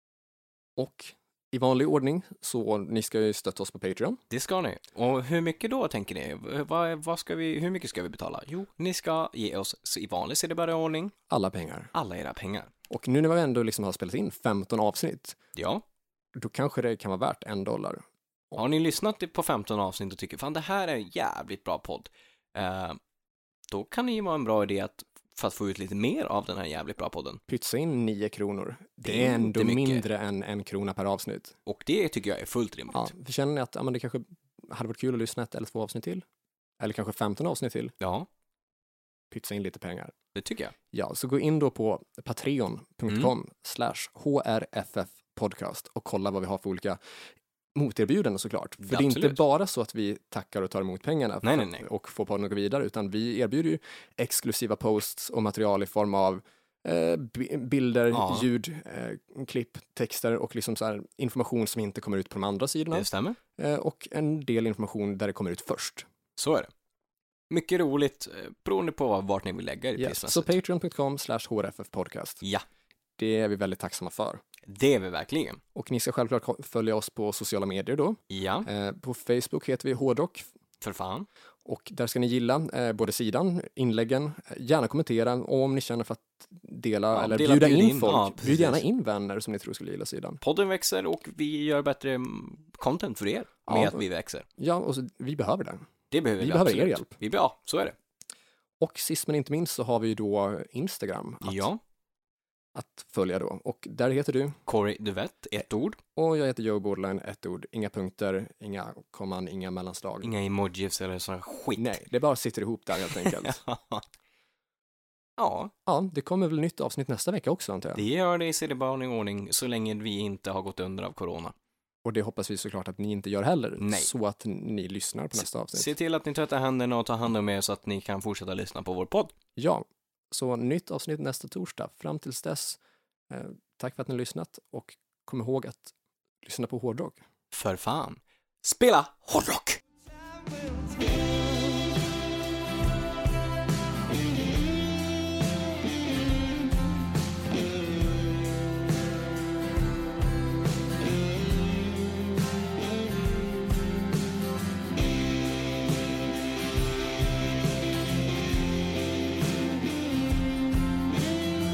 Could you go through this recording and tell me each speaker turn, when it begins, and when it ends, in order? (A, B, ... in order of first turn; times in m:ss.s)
0:00.8-0:04.2 A
0:04.3-0:11.1 B
0:11.3-0:11.9 A
0:11.9-0:12.7 B
0:12.9-0:15.4 A
0:15.6-0:15.8 B
0:16.4-0:18.0 A
0:18.6-0:23.0 B
0:23.7-0:27.4 B
0:27.5-0:31.6 A
0:29.0-0:30.0 B
0:31.7-0:33.1 B
0:32.9-0:36.2 A
0:36.8-0:38.0 A
0:38.0-0:38.3 B
0:39.3-0:40.1 A
0:40.4-0:40.8 B
0:40.9-0:47.0 A
0:47.8-1:06.1 A
0:48.8-0:49.4 B
0:51.4-0:51.8 B
0:58.1-0:58.5 B
1:02.9-1:03.4 B
1:06.4-1:06.7 B
1:07.5-1:10.5 B
1:10.0-1:12.4 A
1:13.2-1:14.4 A
1:14.7-1:15.6 B
1:15.8-1:20.5 A
1:18.3-1:18.7 B
1:20.8-1:21.3 B
1:21.6-1:30.4 A
1:27.1-1:28.8 B
1:30.4-1:34.4 B
1:33.7-1:34.0 A
1:34.6-1:35.9 A
1:36.1-1:38.0 B
1:36.4-1:37.1 A
1:38.8-1:41.7 A
1:41.4-1:41.8 B
1:42.8-1:44.6 A
1:44.7-1:46.0 B
1:46.2-1:50.3 A
1:50.2-1:52.0 B
1:51.8-1:53.6 A
1:53.1-1:54.1 B
1:55.4-1:55.7 B
1:55.9-1:58.0 A
1:58.0-2:01.6 B
2:02.0-2:05.9 A
2:03.8-2:04.1 B
2:05.4-2:09.3 B
2:09.6-2:12.8 A
2:13.3-2:15.9 A
2:16.4-2:17.2 A
2:17.5-2:19.8 B
2:20.0-2:22.0 C